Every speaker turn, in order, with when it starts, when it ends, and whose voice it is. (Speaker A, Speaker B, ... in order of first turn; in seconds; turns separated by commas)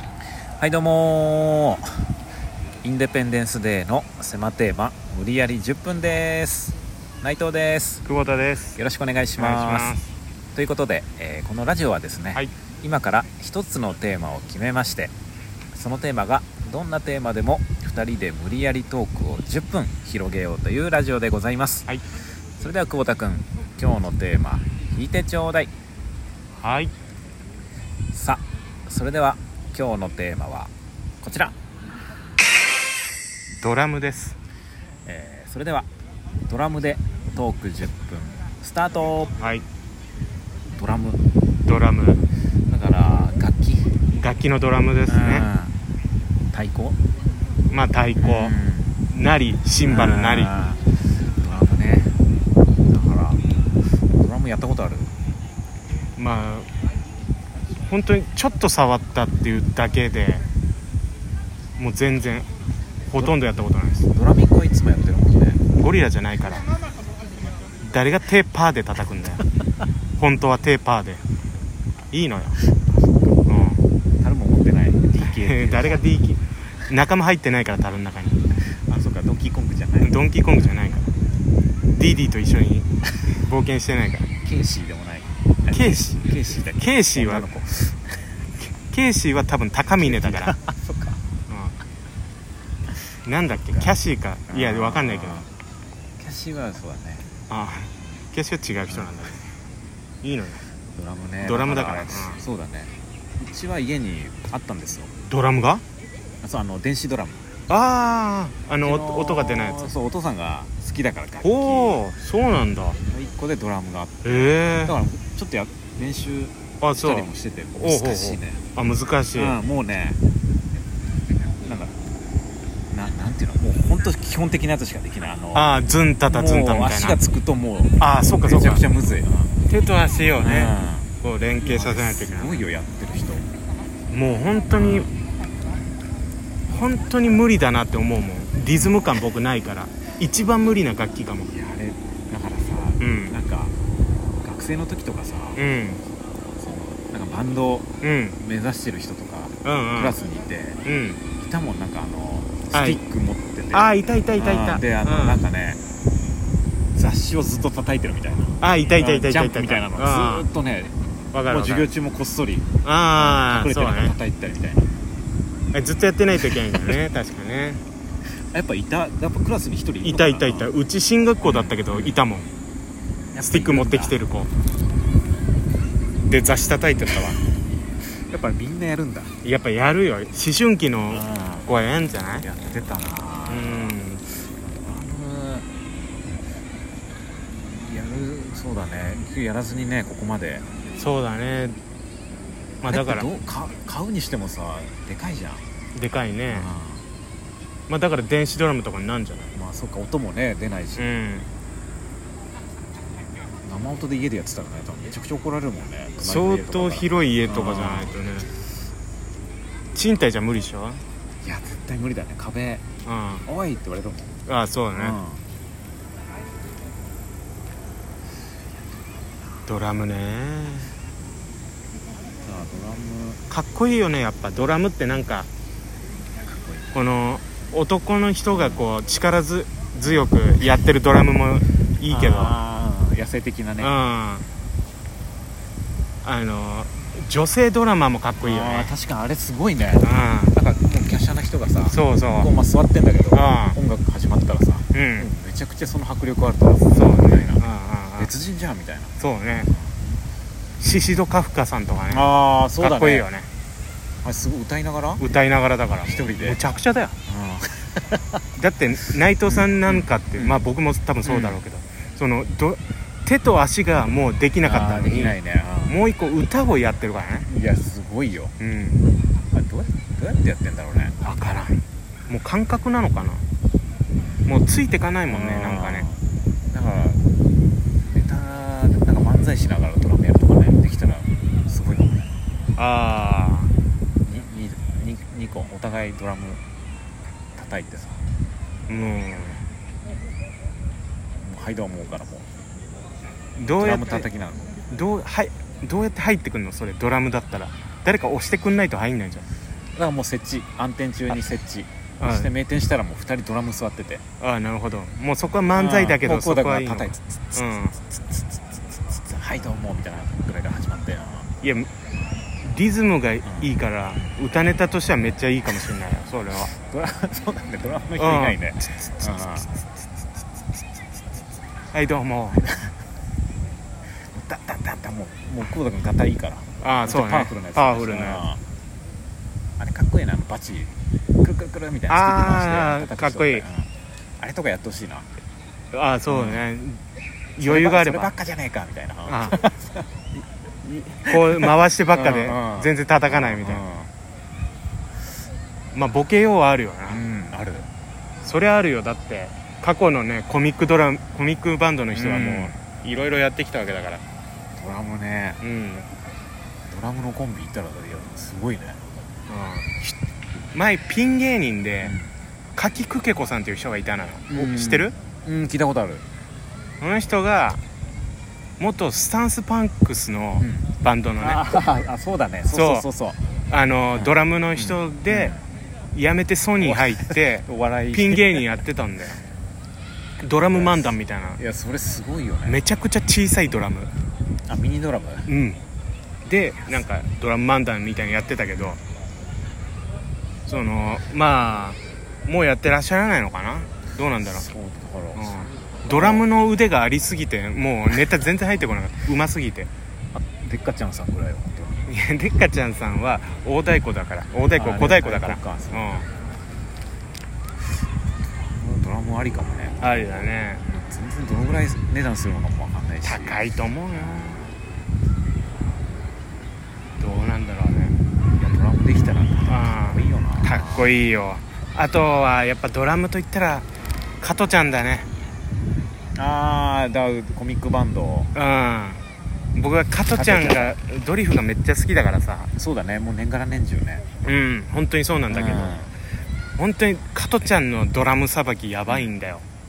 Speaker A: 0.6-2.1, Speaker A: 2.8-8.1, Speaker B: 8.1-8.8, Speaker A: 8.8-10.0, Speaker B: 9.4-10.1, Speaker A: 10.5-15.1, Speaker A: 15.7-21.9, Speaker A: 22.6-25.7, Speaker B: 26.6-26.9, Speaker A: 28.1-31.6, Speaker B: 33.6-34.4, Speaker A: 35.0-35.9, Speaker A: 36.5-39.3, Speaker B: 39.4-39.6, Speaker A: 40.7-41.3, Speaker B: 41.6-42.2, Speaker A: 42.7-43.9, Speaker B: 44.1-45.5, Speaker A: 45.1-45.7, Speaker A: 46.5-47.0, Speaker B: 47.7-48.5, Speaker A: 48.2-49.0, Speaker B: 49.1-50.5, Speaker A: 49.9-52.2, Speaker A: 52.9-55.1, Speaker B: 56.2-56.7, Speaker B: 57.9-60.4, Speaker B: 61.8-62.5, Speaker B: 63.1-64.1, Speaker A: 64.1-65.6, Speaker B: 65.8-66.7, Speaker B: 67.8-69.4, Speaker B: 70.2-71.2, Speaker B: 72.1-72.6, Speaker A: 72.7-73.3, Speaker B: 73.5-73.8, Speaker A: 74.2-76.1, Speaker B: 75.2-78.4, Speaker A: 78.7-80.2, Speaker B: 80.0-81.1, Speaker B: 81.9-84.3, Speaker A: 84.4-88.5, Speaker B: 85.7-86.2, Speaker B: 86.8-87.5, Speaker B: 88.8-90.5, Speaker A: 89.9-91.2, Speaker B: 91.5-91.8, Speaker B: 93.2-95.5, Speaker A: 93.7-94.0, Speaker A: 94.5-95.5, Speaker A: 96.2-97.3, Speaker B: 97.5-99.5, Speaker A: 98.8-99.2, Speaker B: 100.2-100.6, Speaker A: 100.9-105.1, Speaker B: 101.4-102.4, Speaker B: 105.3-105.8, Speaker A: 106.4-107.5, Speaker B: 107.7-109.9, Speaker A: 108.8-112.0, Speaker B: 111.4-113.0, Speaker A: 113.1-118.6, Speaker B: 114.2-115.0, Speaker B: 116.8-119.5, Speaker A: 119.3-120.2, Speaker A: 121.4-122.0, Speaker A: 122.9-125.7, Speaker B: 125.5-127.2, Speaker A: 126.3-129.6, Speaker B: 128.0-128.8, Speaker B: 129.7-132.7, Speaker A: 130.4-133.5, Speaker B: 134.1-135.1, Speaker A: 134.8-135.1, Speaker B: 136.7-141.5, Speaker A: 141.4-143.7, Speaker B: 143.0-143.4, Speaker A: 144.4-145.6, Speaker B: 145.6-146.0, Speaker A: 146.6-150.8, Speaker B: 148.0-148.4, Speaker B: 149.6-150.2, Speaker B: 150.8-151.2, Speaker A: 151.4-155.8, Speaker B: 152.7-153.0, Speaker B: 153.7-155.4, Speaker A: 156.9-164.9, Speaker B: 158.6-160.5, Speaker B: 161.3-161.9, Speaker B: 162.8-164.2, Speaker B: 165.7-167.8, Speaker A: 168.5-170.7, Speaker B: 170.0-172.5, Speaker A: 171.4-172.2, Speaker A: 173.3-174.2, Speaker B: 173.4-174.5, Speaker B: 176.2-177.4, Speaker A: 178.1-179.3, Speaker B: 179.4-182.4, Speaker A: 181.1-181.7, Speaker A: 182.4-184.0, Speaker B: 183.5-184.2, Speaker A: 184.8-185.7, Speaker A: 187.7-190.7, Speaker B: 191.0-191.8, Speaker B: 192.8-193.3, Speaker A: 192.9-195.7, Speaker B: 195.9-196.7, Speaker A: 196.5-197.0, Speaker B: 197.9-199.5, Speaker A: 199.5-201.1, Speaker B: 201.0-201.5, Speaker A: 203.6-208.2, Speaker B: 206.2-208.5, Speaker B: 209.9-211.0, Speaker A: 211.4-212.8, Speaker B: 213.1-213.5, Speaker A: 213.4-214.4, Speaker B: 214.5-215.2, Speaker A: 214.9-215.4, Speaker B: 219.7-220.9, Speaker A: 222.4-223.4, Speaker B: 223.5-225.5, Speaker A: 226.4-226.9, Speaker B: 226.9-232.6, Speaker A: 228.5-228.8, Speaker A: 230.0-230.8, Speaker A: 232.1-233.9, Speaker B: 233.8-234.5, Speaker B: 236.2-238.9, Speaker A: 238.4-247.6, Speaker B: 240.0-240.6, Speaker B: 241.9-242.5, Speaker B: 243.3-243.8, Speaker B: 244.9-245.3, Speaker B: 246.9-248.3, Speaker A: 248.2-250.0, Speaker B: 249.2-249.7, Speaker B: 250.8-252.2, Speaker A: 252.1-253.3, Speaker B: 252.8-253.5, Speaker A: 254.2-255.2, Speaker B: 255.2-257.2, Speaker A: 256.0-256.6, Speaker A: 257.3-258.4, Speaker B: 258.6-267.5, Speaker A: 259.5-260.6, Speaker A: 261.2-261.6, Speaker A: 264.6-266.0, Speaker A: 267.5-268.5, Speaker B: 268.6-269.1, Speaker A: 269.5-271.6, Speaker B: 271.2-273.4, Speaker B: 274.5-276.1, Speaker A: 275.3-277.2, Speaker A: 278.1-282.3, Speaker B: 282.8-283.7, Speaker A: 284.2-286.6, Speaker A: 287.6-288.2, Speaker B: 288.9-289.6, Speaker A: 291.4-292.5, Speaker B: 293.6-294.3, Speaker A: 293.7-294.8, Speaker B: 294.9-299.5, Speaker A: 299.9-304.2, Speaker B: 302.2-302.5, Speaker B: 304.4-308.0, Speaker A: 305.7-307.9, Speaker A: 309.1-311.5, Speaker B: 311.6-311.9, Speaker B: 312.6-316.7, Speaker A: 313.4-314.4, Speaker A: 316.5-319.7, Speaker B: 318.2-319.7, Speaker B: 321.9-322.6, Speaker A: 322.6-322.9, Speaker A: 324.1-328.6, Speaker B: 326.8-328.5, Speaker A: 329.8-335.3, Speaker B: 332.1-333.6, Speaker B: 335.9-337.0, Speaker A: 336.3-336.6, Speaker B: 337.6-338.3, Speaker A: 337.6-340.1, Speaker B: 339.3-339.6, Speaker B: 340.8-343.8, Speaker A: 341.3-344.1, Speaker B: 345.9-347.2, Speaker A: 347.1-347.9, Speaker B: 348.4-354.2, Speaker A: 352.1-352.7, Speaker A: 354.8-355.6, Speaker B: 355.6-356.1, Speaker A: 356.9-359.0, Speaker B: 359.5-359.9, Speaker B: 360.7-362.1, Speaker A: 362.0-362.3, Speaker B: 362.8-365.1, Speaker A: 364.5-366.2, Speaker B: 367.0-367.8, Speaker B: 368.8-371.8, Speaker A: 370.6-373.5, Speaker B: 372.7-373.1, Speaker B: 373.7-375.6, Speaker A: 374.1-375.6, Speaker B: 376.1-379.4, Speaker A: 376.8-378.8, Speaker B: 380.4-381.6, Speaker A: 380.7-382.8, Speaker B: 382.6-384.1, Speaker A: 384.7-385.5, Speaker B: 385.5-385.8, Speaker B: 386.4-389.0, Speaker B: 390.7-394.7, Speaker A: 394.4-396.4, Speaker B: 395.4-399.9, Speaker A: 400.3-402.1, Speaker B: 402.1-406.3, Speaker A: 404.7-406.3, Speaker A: 408.5-413.6, Speaker B: 410.0-410.8, Speaker B: 413.2-414.7, Speaker A: 414.1-414.7, Speaker B: 417.2-418.2, Speaker A: 418.6-421.1, Speaker B: 419.7-423.9, Speaker B: 424.4-425.3, Speaker A: 426.3-428.5, Speaker B: 428.5-429.2, Speaker B: 429.8-432.7, Speaker A: 430.3-431.0, Speaker A: 432.8-434.2, Speaker B: 434.4-436.0, Speaker A: 435.5-436.1, Speaker B: 436.8-439.6, Speaker A: 439.1-439.3